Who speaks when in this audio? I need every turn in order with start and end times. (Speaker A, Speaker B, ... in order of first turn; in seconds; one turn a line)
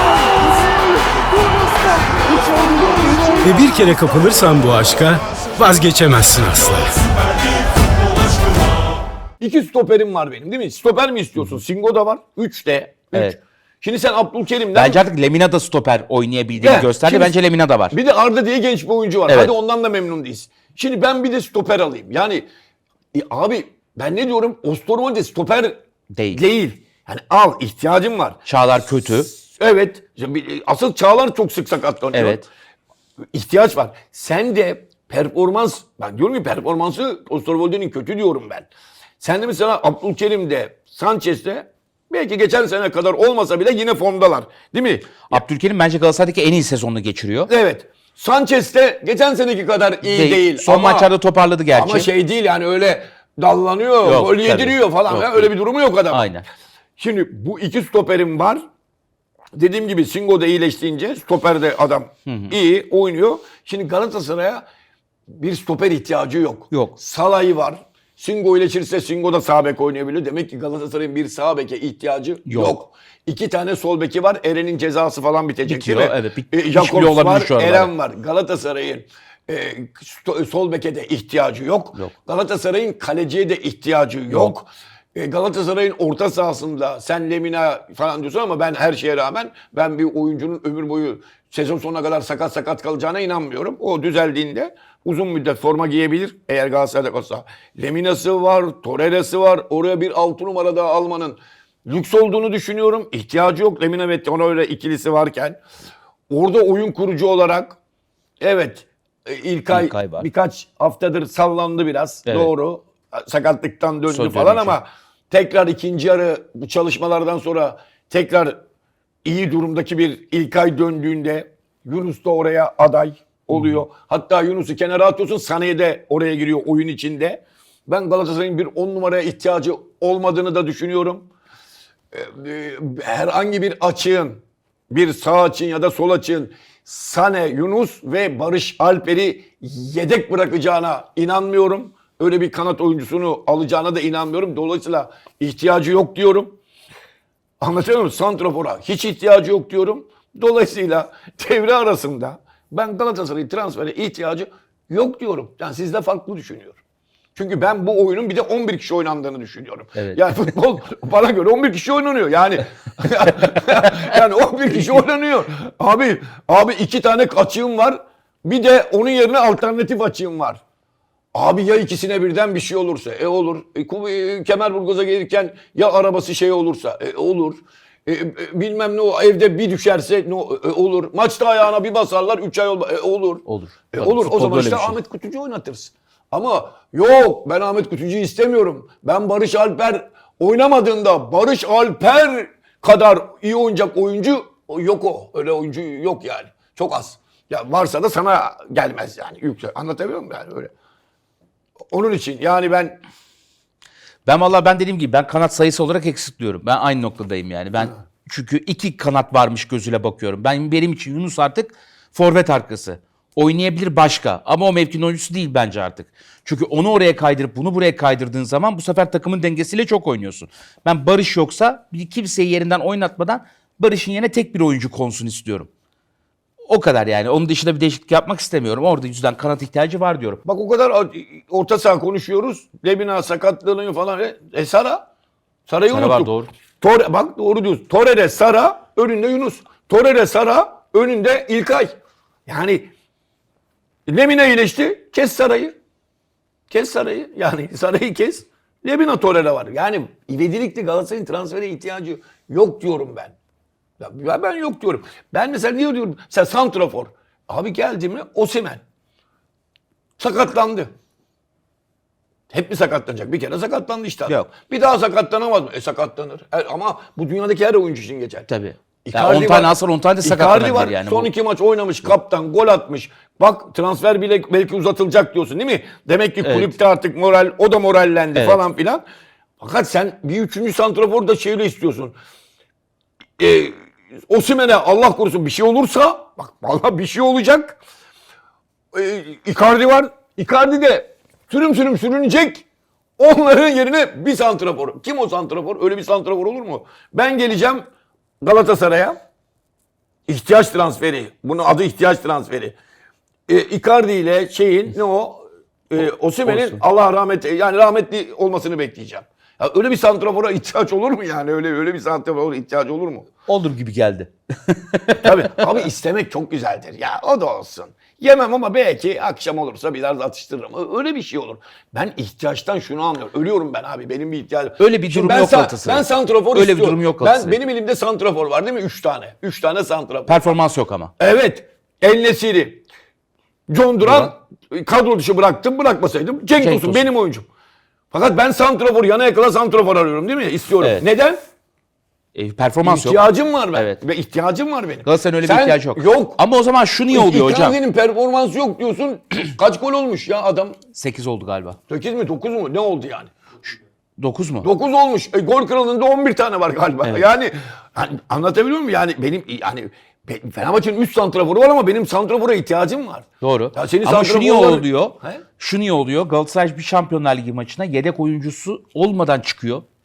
Speaker A: 3.4-7.0
Speaker B: 9.4-15.0
Speaker C: 11.3-11.6
Speaker C: 13.1-13.4
Speaker C: 14.7-18.0
Speaker B: 16.6-17.3
Speaker B: 17.9-22.4
Speaker C: 19.3-19.5
Speaker B: 23.1-25.8
Speaker C: 26.1-26.4
Speaker B: 26.3-28.4
Speaker C: 28.4-29.3
Speaker B: 29.1-32.5
Speaker C: 32.1-32.5
Speaker B: 33.3-38.7
Speaker B: 39.2-45.4
Speaker C: 45.2-47.5
Speaker B: 47.5-51.1
Speaker C: 50.0-52.1
Speaker B: 51.7-56.3
Speaker C: 54.0-55.5
Speaker C: 56.1-56.4
Speaker B: 57.0-58.6
Speaker B: 59.5-64.6
Speaker C: 62.2-62.5
Speaker B: 65.3-105.6
Speaker C: 66.7-67.0
Speaker C: 72.5-72.8
Speaker C: 75.6-77.9
Speaker C: 84.3-84.5
Speaker B: 106.3-107.8
Speaker B: 108.4-118.6
Speaker C: 109.7-110.3
Speaker C: 112.2-112.5
Speaker C: 114.1-114.8
Speaker B: 119.2-131.3
Speaker C: 123.5-123.8
Speaker B: 132.1-146.6
Speaker B: 147.6-156.8
Speaker B: 157.3-170.6
Speaker C: 159.9-160.4
Speaker B: 171.3-200.7
Speaker C: 183.4-185.0
Speaker B: 201.9-203.0
Speaker C: 204.2-225.7
Speaker C: 226.7-230.4
Speaker B: 230.4-235.1
Speaker B: 235.7-242.9
Speaker C: 235.9-236.5
Speaker B: 244.1-245.7
Speaker B: 246.7-253.3
Speaker B: 254.0-258.8
Speaker B: 260.2-260.9
Speaker B: 262.5-268.5
Speaker C: 268.5-271.3
Speaker B: 269.1-279.0
Speaker C: 276.4-276.7
Speaker C: 278.3-278.6
Speaker B: 279.6-282.1
Speaker B: 283.4-287.8
Speaker B: 288.9-292.6
Speaker B: 293.2-297.9
Speaker B: 298.4-299.2
Speaker B: 300.3-302.8
Speaker B: 303.5-313.3
Speaker C: 306.0-306.8
Speaker C: 313.4-315.8
Speaker B: 315.2-330.6
Speaker C: 324.8-327.6
Speaker C: 330.2-331.1
Speaker B: 331.2-332.8
Speaker B: 333.7-337.5
Speaker C: 334.0-334.3
Speaker C: 336.5-337.1
Speaker B: 338.1-341.4
Speaker C: 340.8-341.0
Speaker C: 342.3-344.0
Speaker B: 342.8-346.4
Speaker C: 345.0-347.8
Speaker B: 347.1-350.8
Speaker C: 350.9-351.8
Speaker B: 351.9-353.3
Speaker C: 354.2-354.7
Speaker B: 354.6-365.4
Speaker C: 363.4-369.8